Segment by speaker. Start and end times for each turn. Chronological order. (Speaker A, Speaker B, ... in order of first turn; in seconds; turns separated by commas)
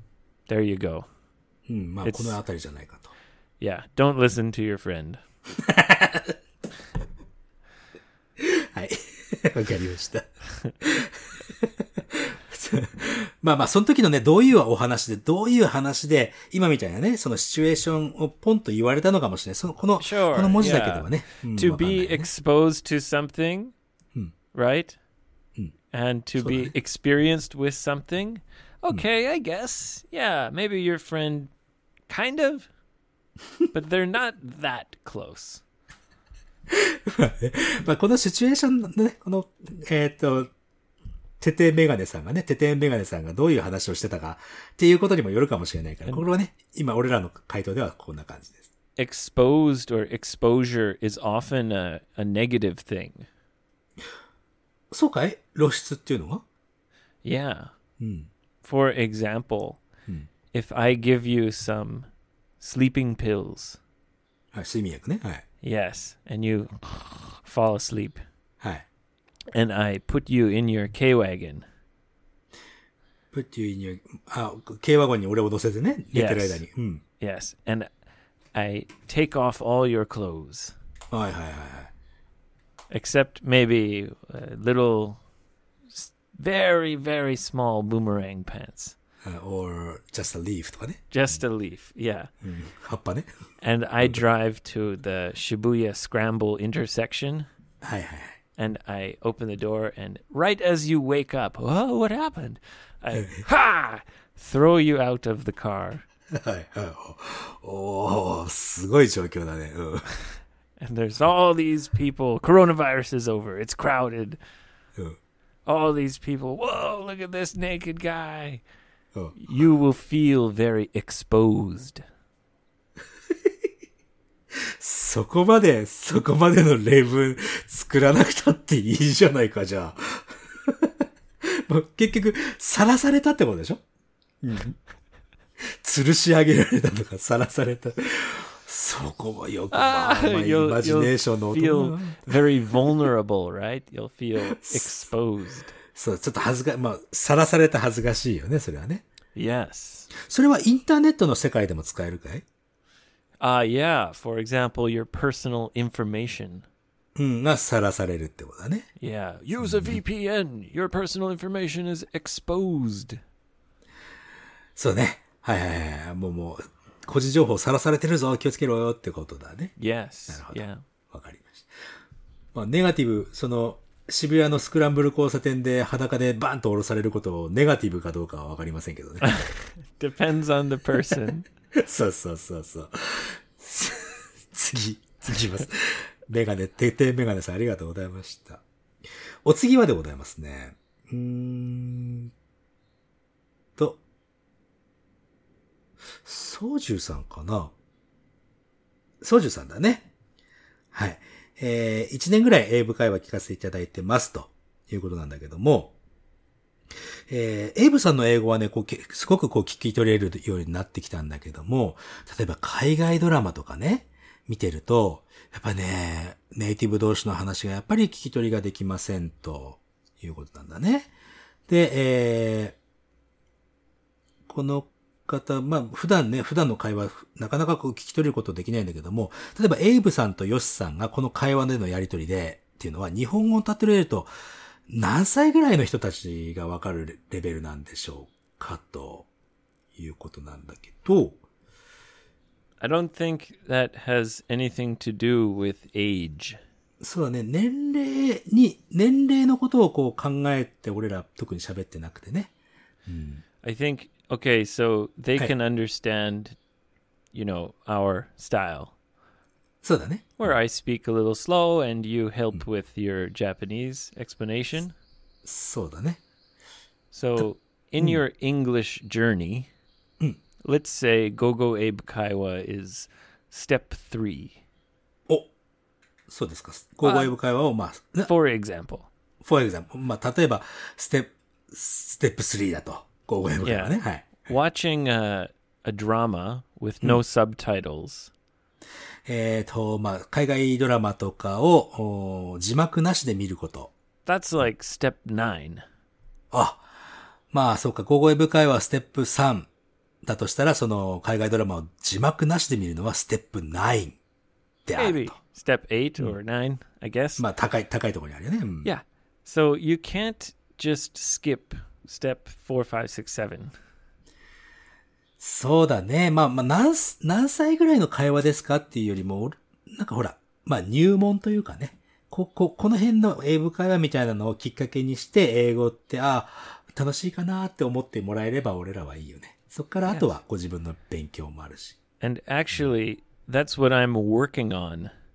Speaker A: 0.5-1.1, Speaker B: 1.7-3.1, Speaker A: 2.0-2.4, Speaker A: 3.6-5.2, Speaker B: 5.6-6.4, Speaker B: 8.4-10.3, Speaker B: 10.8-22.3, Speaker A: 20.0-23.7, Speaker A: 24.5-25.0, Speaker A: 25.9-31.5, Speaker B: 26.4-26.7, Speaker A: 32.1-32.7, Speaker A: 33.7-35.6, Speaker B: 36.7-40.5, Speaker B: 41.4-48.7, Speaker A: 49.0-53.3, Speaker B: 54.9-56.4, Speaker A: 57.2-57.7, Speaker B: 58.0-58.3, Speaker A: 58.6-59.8, Speaker A: 60.5-62.1, Speaker A: 62.6-63.8, Speaker B: 64.5-65.4, Speaker A: 65.6-68.2, Speaker A: 69.5-71.7, Speaker B: 73.3-77.0, Speaker A: 76.1-76.6, Speaker A: 77.2-77.9, Speaker A: 78.5-80.7, Speaker B: 81.1-81.9, Speaker A: 82.9-85.2, Speaker A: 85.9-89.0, Speaker B: 89.2-91.4, Speaker A: 91.1-92.3, Speaker B: 92.4-93.3, Speaker A: 93.6-97.5, Speaker B: 97.8-98.4, Speaker A: 98.6-106.0, Speaker B: 103.2-103.4, Speaker B: 106.3-110.2, Speaker A: 110.8-114.4, Speaker A: 115.7-118.6, Speaker A: 119.3-122.0, Speaker B: 124.5-133.8, Speaker B: 134.4-134.8, Speaker B: 135.6-142.9, Speaker A: 139.7-145.7, Speaker B: 144.5-145.1, Speaker B: 145.9-149.1, Speaker A: 149.3-150.1, Speaker B: 150.1-152.4, Speaker A: 153.4-156.7, Speaker B: 157.2-158.9, Speaker A: 159.0-163.2, Speaker B: 159.7-160.0, Speaker B: 164.8-169.7, Speaker A: 169.8-170.8, Speaker B: 170.3-171.7, Speaker B: 172.5-179.4, Speaker A: 179.2-181.5, Speaker B: 181.8-188.6, Speaker B: 189.4-192.3, Speaker B: 193.8-194.0, Speaker B: 196.2-197.7, Speaker B: 199.2-200.1, Speaker B: 200.9-205.9, Speaker B: 207.3-221.1, Speaker B: 221.7-222.8, Speaker B: 224.5-234.3, Speaker B: 234.9-239.3, Speaker B: 239.9-241.4, Speaker A: 242.8-246.6, Speaker B: 247.0-252.5, Speaker B: 253.1-253.4, Speaker A: 253.6-256.6, Speaker A: 257.3-258.9, Speaker B: 259.8-260.5, Speaker A: 260.4-264.9, Speaker B: 265.4-266.2, Speaker A: 267.1-269.7, Speaker A: 270.6-274.6, Speaker B: 276.3-278.3, Speaker A: 277.0-277.3, Speaker A: 278.2-279.1, Speaker B: 279.4-284.5, Speaker A: 283.6-288.3, Speaker B: 289.3-293.9, Speaker A: 294.2-295.8, Speaker B: 296.5-296.9, Speaker B: 297.5-299.7, Speaker B: 300.2-304.2, Speaker B: 304.9-305.4, Speaker A: 304.9-307.5, Speaker B: 307.4-308.9, Speaker A: 308.8-313.7, Speaker B: 315.4-332.0, Speaker A: 332.2-335.1